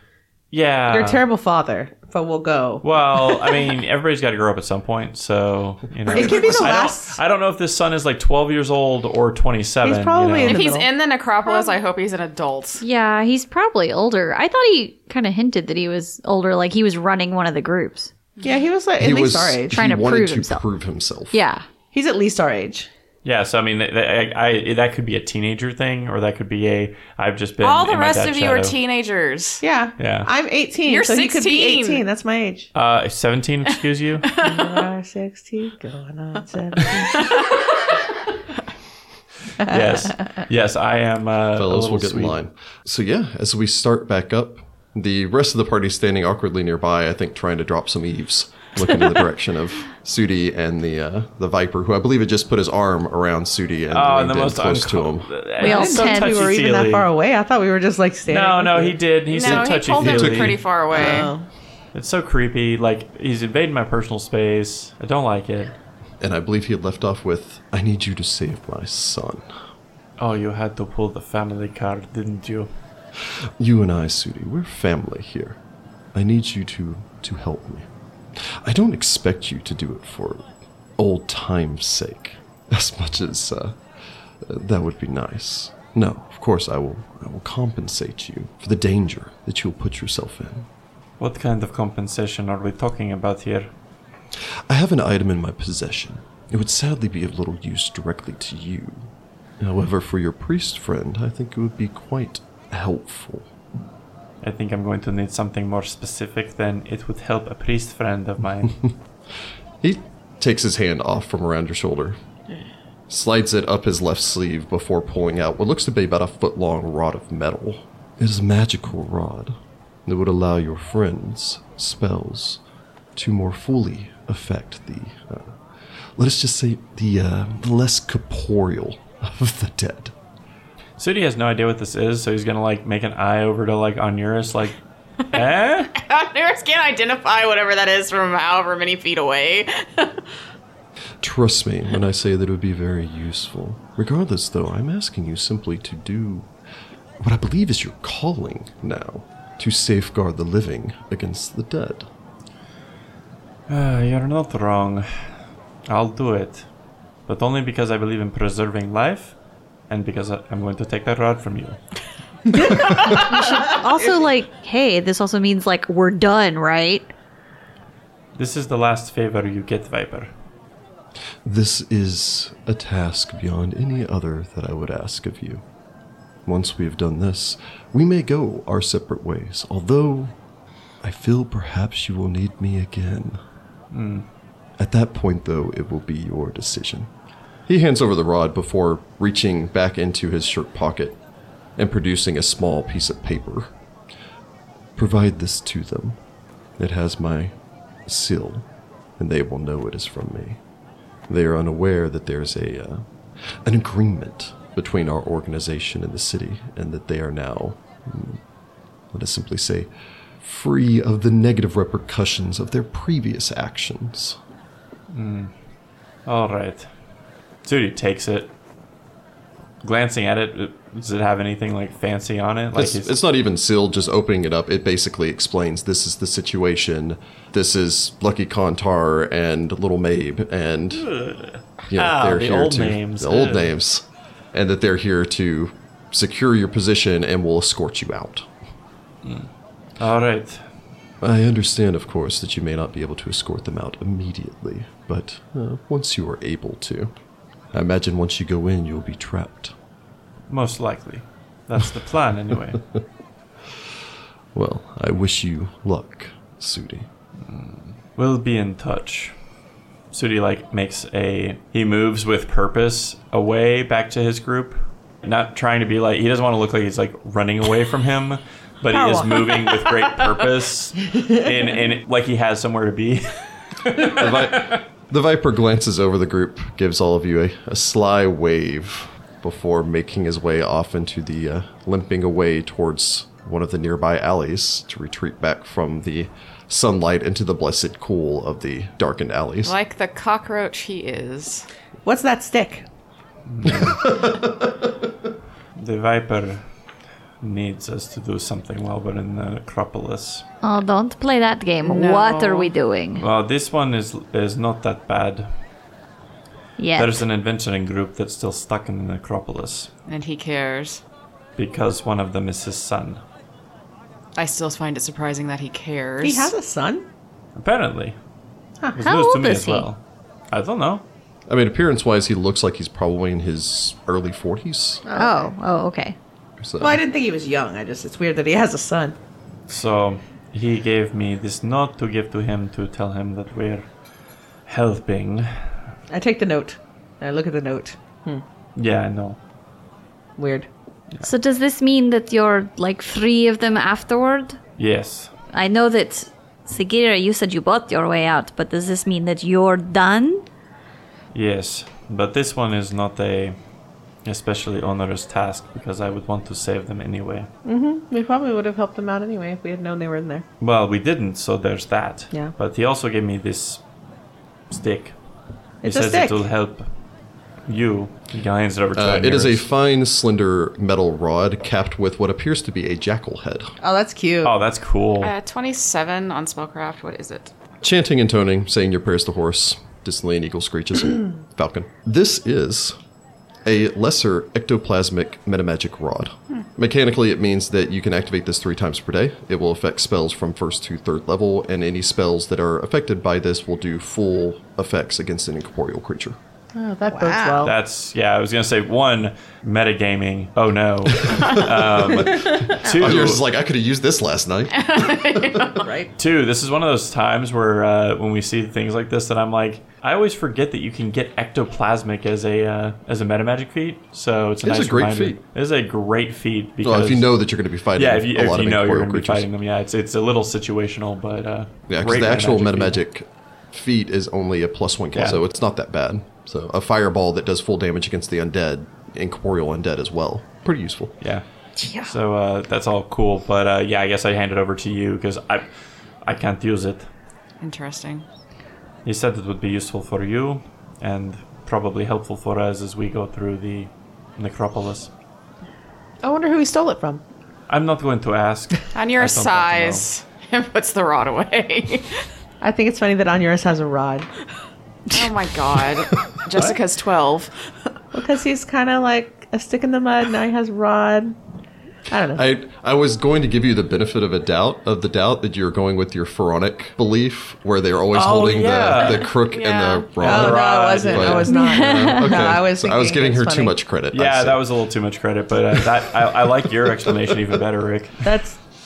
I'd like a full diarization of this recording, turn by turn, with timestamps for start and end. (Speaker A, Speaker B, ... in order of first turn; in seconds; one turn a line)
Speaker A: 0.5-1.2
Speaker B: 0.9-2.8
Speaker A: 2.8-10.7
Speaker B: 6.1-7.2
Speaker C: 6.1-6.7
Speaker B: 9.8-10.9
Speaker D: 10.4-12.8
Speaker E: 11.5-11.7
Speaker E: 12.8-18.1
Speaker B: 18.4-19.8
Speaker C: 19.0-21.4
Speaker E: 19.7-20.6
Speaker E: 21.3-21.6
Speaker B: 21.9-22.9
Speaker A: 23.2-28.8
Speaker D: 27.6-29.6
Speaker B: 29.6-32.7
Speaker A: 30.0-30.3
Speaker D: 30.9-32.0
Speaker A: 32.7-34.3
Speaker D: 34.2-34.9
Speaker B: 34.4-37.3
Speaker D: 37.0-37.8
Speaker A: 39.6-42.4
Speaker B: 39.7-39.9
Speaker C: 41.6-55.3
Speaker A: 53.9-57.1
Speaker E: 55.6-56.4
Speaker B: 55.6-59.0
Speaker A: 58.3-61.2
Speaker D: 59.3-61.3
Speaker C: 60.0-60.6
Speaker B: 60.9-61.5
Speaker A: 61.9-65.7
Speaker C: 66.2-69.5
Speaker A: 70.2-72.7
Speaker C: 73.6-75.6
Speaker C: 76.1-83.8
Speaker C: 84.4-90.7
Speaker A: 91.2-93.7
Speaker C: 94.7-103.5
Speaker A: 104.4-108.8
Speaker C: 109.8-112.2
Speaker C: 113.1-122.6
Speaker C: 123.2-125.6
Speaker C: 126.2-130.1
Speaker A: 131.0-134.8
Speaker A: 135.3-135.9
Speaker D: 135.9-140.2
Speaker C: 141.2-146.5
Speaker C: 147.2-152.1
Speaker A: 153.7-155.3
Speaker A: 155.9-156.7
Speaker A: 157.3-159.4
Speaker A: 159.9-161.8
Speaker B: 162.5-163.1
Speaker D: 162.7-163.8
Speaker E: 163.1-167.1
Speaker A: 168.4-170.3
Speaker C: 171.4-175.6
Speaker C: 176.5-180.4
Speaker C: 181.0-183.4
Speaker A: 183.9-184.3
Speaker C: 184.8-187.1
Speaker C: 187.7-191.2
Speaker C: 191.8-193.7
Speaker C: 195.0-196.2
Speaker C: 196.8-197.5
Speaker C: 198.1-198.7
Speaker C: 199.2-200.6
Speaker C: 201.3-203.1
Speaker C: 203.6-208.4
Speaker C: 209.1-209.9
Speaker C: 210.4-214.4
Speaker A: 215.1-215.5
Speaker A: 216.3-216.9
Speaker A: 217.6-218.5
Speaker A: 219.8-223.2
Speaker C: 222.7-231.1
Speaker A: 230.9-233.7
Speaker C: 231.9-238.5
Speaker A: 239.2-240.7
Speaker C: 241.2-247.1
Speaker C: 247.7-249.8
Speaker A: 250.5-252.8
Speaker C: 254.5-257.1
Speaker A: 257.4-259.4
Speaker A: 260.1-274.8
Speaker B: 268.9-269.5
Speaker C: 274.1-289.8
Speaker D: 289.6-291.7
Speaker B: 292.0-292.9
Speaker A: 293.5-294.0
Speaker C: 293.6-295.1
Speaker A: 295.8-296.7
Speaker A: 297.4-300.4
Speaker E: 300.6-303.2
Speaker D: 301.8-302.7
Speaker A: 303.2-305.5
Speaker E: 306.8-307.2
Speaker A: 306.9-309.9
Speaker D: 310.1-311.0
Speaker A: 311.6-313.2
Speaker D: 314.4-316.5
Speaker B: 316.2-317.1
Speaker A: 317.6-318.2
Speaker A: 318.9-320.0
Speaker E: 319.0-319.9
Speaker A: 320.5-321.1
Speaker C: 321.5-325.0
Speaker B: 325.1-325.5
Speaker E: 325.1-326.2
Speaker C: 326.6-327.0
Speaker B: 326.8-329.2
Speaker A: 329.7-333.9
Speaker A: 334.7-335.7
Speaker B: 336.1-338.4
Speaker A: 338.8-339.4
Speaker B: 340.4-340.7
Speaker E: 341.2-344.6
Speaker A: 344.8-345.3
Speaker E: 345.5-350.4
Speaker A: 351.3-353.6
Speaker A: 354.2-357.5
Speaker B: 357.6-360.4
Speaker A: 360.6-363.8
Speaker A: 364.7-365.2
Speaker B: 365.8-366.4
Speaker A: 365.8-366.9
Speaker A: 367.6-369.6
Speaker C: 369.0-373.7
Speaker B: 373.8-374.5
Speaker A: 374.4-375.3
Speaker D: 375.2-377.5
Speaker C: 377.8-383.0
Speaker C: 383.6-396.4
Speaker B: 396.8-397.7
Speaker E: 397.2-397.5
Speaker A: 397.6-403.4
Speaker C: 401.2-405.9
Speaker B: 402.4-402.9
Speaker D: 404.7-405.9
Speaker B: 405.8-406.1
Speaker A: 406.2-417.4
Speaker C: 414.6-415.4
Speaker C: 416.8-419.5
Speaker A: 417.9-423.0
Speaker C: 421.9-431.1
Speaker A: 425.1-425.4
Speaker E: 431.8-432.1
Speaker A: 432.0-435.7
Speaker A: 436.2-437.1
Speaker D: 437.6-438.2
Speaker A: 439.1-445.1
Speaker B: 446.2-447.2
Speaker A: 447.7-450.1
Speaker D: 448.9-452.2
Speaker B: 452.6-454.3
Speaker D: 455.1-457.5
Speaker B: 458.1-461.4
Speaker B: 462.1-462.4
Speaker C: 462.3-474.7
Speaker A: 468.1-469.3
Speaker D: 469.5-470.1
Speaker A: 470.2-471.5
Speaker B: 470.2-473.8
Speaker E: 471.5-472.4
Speaker A: 474.1-478.2
Speaker B: 478.2-478.6